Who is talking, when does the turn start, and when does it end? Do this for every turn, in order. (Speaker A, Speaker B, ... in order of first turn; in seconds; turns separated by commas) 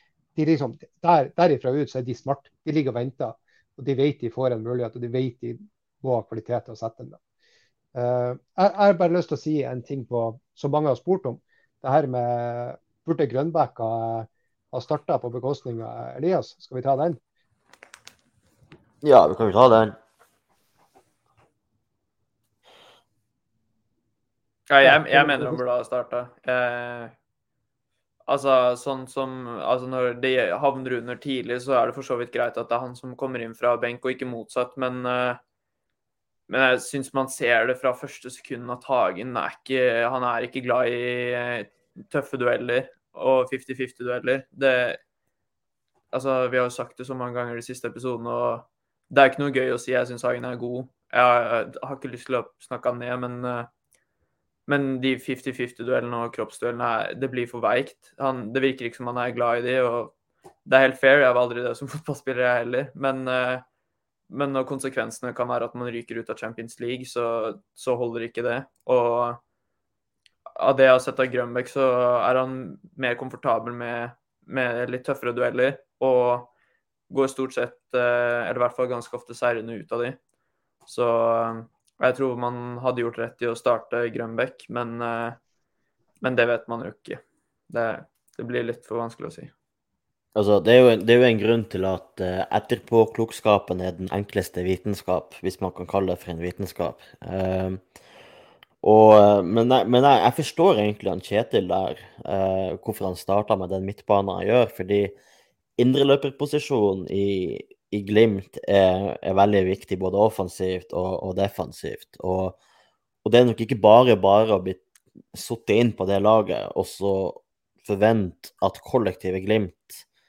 Speaker A: 0.3-7.2, Speaker A: 7.9-17.2, Speaker B: 19.0-19.9, Speaker C: 24.7-27.1, Speaker A: 24.8-25.6, Speaker C: 28.3-35.4, Speaker C: 36.5-45.0, Speaker C: 46.1-53.7, Speaker C: 54.7-60.1, Speaker C: 60.6-63.6, Speaker C: 64.3-69.4, Speaker C: 70.5-76.5, Speaker C: 77.1-80.2, Speaker C: 80.9-85.4, Speaker C: 86.2-89.5, Speaker B: 90.3-97.8, Speaker B: 98.8-105.1, Speaker B: 105.8-112.6, Speaker B: 113.2-114.8, Speaker B: 115.3-120.0